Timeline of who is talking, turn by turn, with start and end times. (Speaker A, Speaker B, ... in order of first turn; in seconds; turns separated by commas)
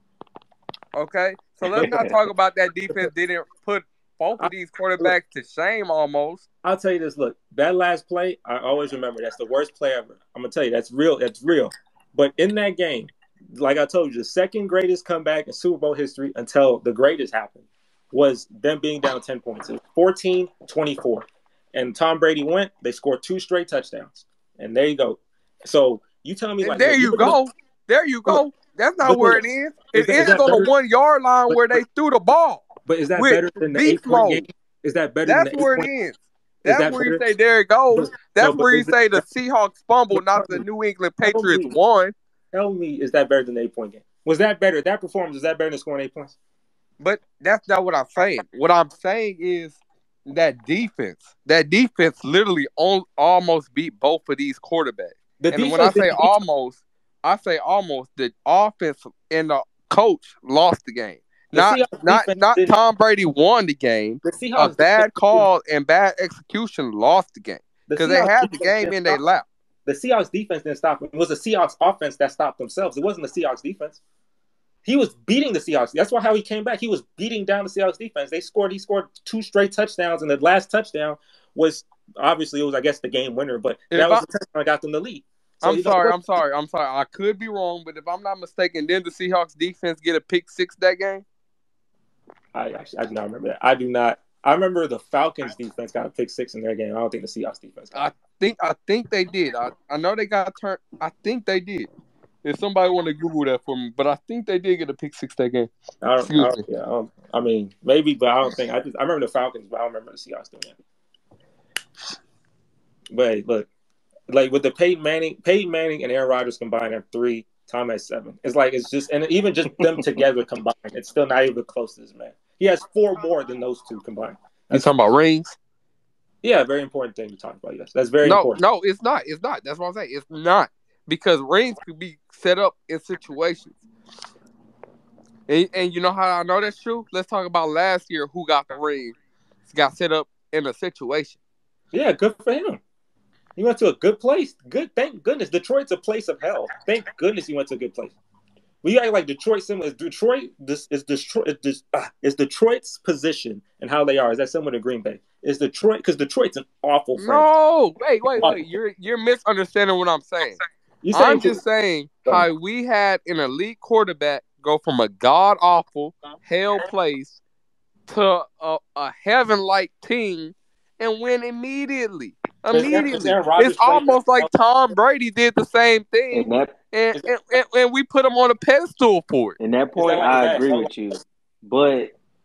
Speaker A: 0.9-6.5, Speaker B: 1.6-2.2, Speaker C: 4.4-5.1, Speaker C: 6.6-27.4, Speaker A: 26.6-34.4, Speaker C: 29.0-30.7, Speaker C: 31.5-31.8, Speaker C: 32.9-35.9, Speaker A: 35.2-42.1, Speaker C: 36.6-37.2, Speaker C: 37.9-39.2, Speaker C: 40.1-40.6, Speaker C: 41.2-41.7, Speaker C: 42.5-46.4, Speaker A: 47.0-69.5, Speaker C: 55.4-56.3, Speaker C: 61.5-62.7, Speaker C: 64.2-65.5, Speaker C: 67.9-69.2, Speaker C: 69.8-74.0, Speaker C: 74.8-86.2, Speaker A: 83.9-84.2, Speaker A: 85.6-91.2, Speaker C: 92.5-98.1, Speaker A: 97.9-101.9, Speaker A: 102.4-105.7, Speaker C: 106.0-110.8, Speaker A: 106.2-106.6, Speaker C: 113.1-113.7, Speaker C: 114.3-124.9, Speaker A: 124.7-125.6, Speaker C: 126.4-128.6, Speaker A: 128.2-133.8, Speaker A: 135.5-139.2, Speaker A: 139.7-141.4, Speaker C: 141.9-142.8, Speaker C: 143.6-148.2, Speaker C: 148.8-157.5, Speaker A: 157.2-160.6, Speaker C: 158.3-158.6, Speaker C: 161.0-161.6, Speaker A: 161.1-167.4, Speaker A: 168.1-179.6, Speaker C: 172.7-174.5, Speaker B: 176.3-176.7, Speaker B: 179.6-182.1, Speaker C: 179.9-180.9